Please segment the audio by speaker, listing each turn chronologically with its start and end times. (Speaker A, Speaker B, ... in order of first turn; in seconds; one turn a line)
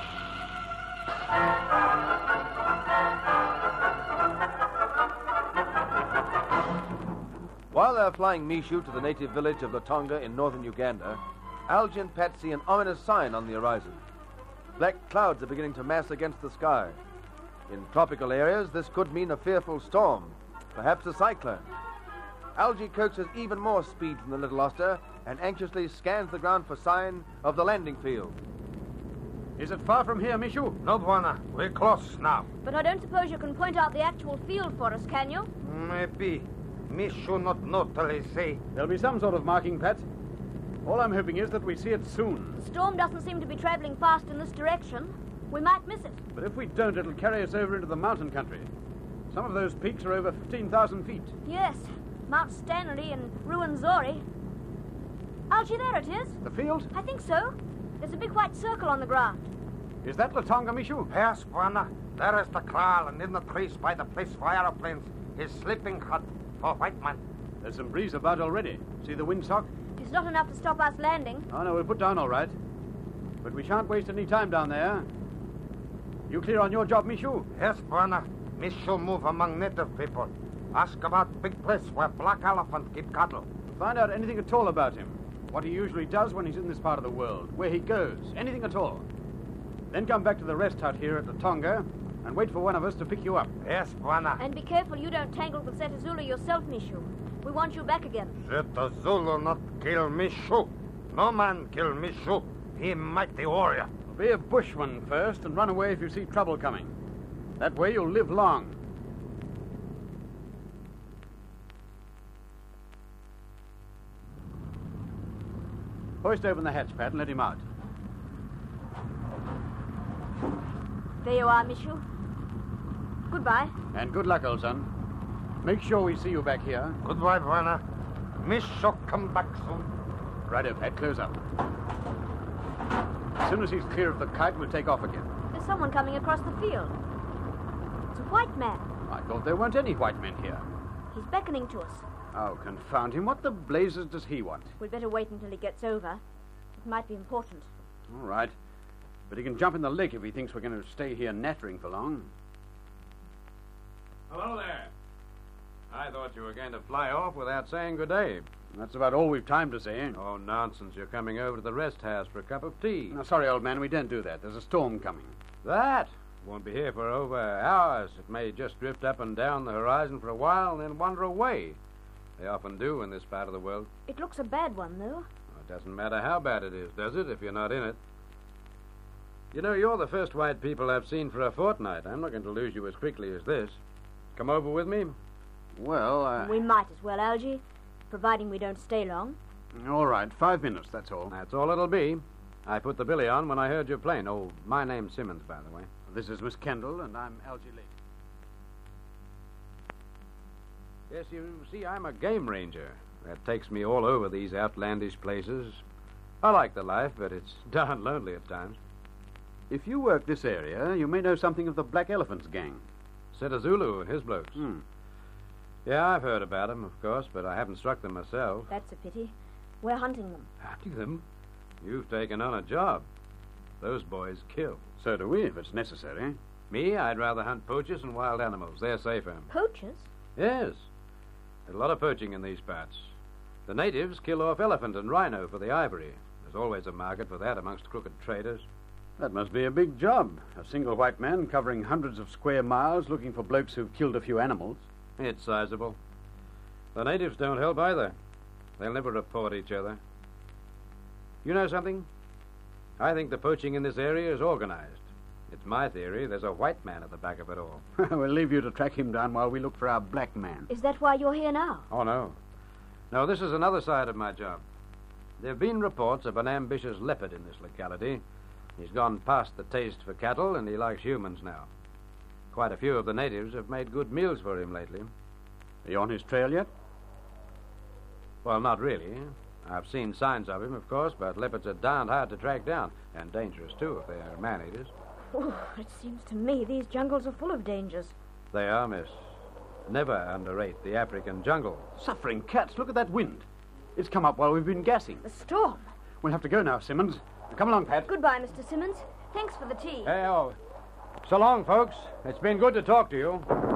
Speaker A: 7.7-14.0
Speaker A: 14.8-17.0
Speaker A: 17.7-21.7
Speaker A: 22.6-28.4
Speaker B: 29.6-30.8
Speaker C: 30.8-32.5
Speaker D: 32.6-35.5
Speaker C: 35.6-38.6
Speaker B: 38.7-40.0
Speaker B: 40.8-42.6
Speaker D: 42.5-46.2
Speaker B: 46.3-48.7
Speaker B: 49.3-51.3
Speaker D: 51.4-54.2
Speaker D: 55.5-56.4
Speaker B: 56.4-56.9
Speaker D: 56.9-59.4
Speaker B: 60.0-61.1
Speaker C: 61.1-67.2
Speaker B: 67.6-69.7
Speaker D: 70.0-71.5
Speaker B: 71.5-72.5
Speaker B: 73.4-75.1
Speaker B: 76.3-77.5
Speaker C: 77.5-83.5
Speaker B: 83.7-89.0
Speaker B: 89.9-93.5
Speaker C: 93.6-94.4
Speaker D: 94.4-98.4
Speaker C: 98.4-103.9
Speaker B: 104.1-106.9
Speaker B: 107.6-108.8
Speaker B: 116.2-117.6
Speaker D: 121.2-122.0
Speaker D: 123.3-123.7
Speaker B: 123.9-124.9
Speaker B: 125.6-127.0
Speaker C: 127.0-127.8
Speaker C: 128.4-129.9
Speaker B: 130.5-131.3
Speaker B: 133.4-135.3
Speaker D: 135.5-136.9
Speaker D: 138.1-138.8
Speaker B: 139.1-140.6
Speaker D: 141.1-142.0
Speaker B: 142.3-144.7
Speaker D: 144.8-146.2
Speaker D: 146.8-147.7
Speaker B: 148.1-148.5
Speaker B: 149.3-152.3
Speaker E: 154.3-154.9
Speaker E: 155.9-158.4
Speaker B: 158.7-160.2
Speaker E: 160.1-163.2
Speaker B: 163.1-165.3
Speaker E: 165.6-171.8
Speaker E: 172.4-173.9
Speaker D: 174.1-175.3
Speaker E: 175.5-178.0
Speaker E: 179.5-183.8
Speaker E: 184.3-185.1
Speaker B: 185.8-186.5
Speaker D: 186.4-189.4
Speaker B: 189.7-191.3
Speaker E: 191.3-195.9
Speaker B: 196.1-197.9
Speaker E: 201.1-205.8
Speaker E: 206.4-208.8
Speaker B: 209.7-212.8
Speaker E: 213.3-214.6
Speaker B: 214.6-214.8
Speaker E: 215.8-218.7
Speaker D: 218.7-220.5
Speaker E: 220.6-221.2
Speaker E: 221.8-223.0
Speaker E: 223.8-224.8
Speaker B: 225.0-226.3
Speaker E: 226.7-229.5
Speaker D: 229.5-230.1
Speaker E: 230.3-230.9
Speaker E: 231.7-233.1
Speaker E: 233.7-238.7
Speaker B: 239.2-244.8
Speaker E: 245.2-246.0
Speaker E: 246.9-248.2
Speaker E: 248.8-250.0
Speaker E: 251.4-252.1
Speaker E: 253.0-257.8
Speaker B: 258.0-260.7
Speaker D: 260.7-261.9
Speaker E: 261.9-262.4
Speaker E: 263.1-264.6
Speaker E: 265.4-268.2
Speaker E: 268.8-271.7
Speaker E: 272.5-275.1
Speaker B: 275.8-276.7
Speaker E: 278.4-284.9
Speaker D: 285.3-288.1
Speaker E: 288.5-289.2
Speaker E: 289.9-291.9
Speaker B: 291.9-295.2
Speaker D: 295.2-295.8
Speaker B: 296.2-298.1
Speaker D: 298.1-300.1
Speaker E: 300.0-300.6
Speaker E: 301.2-303.5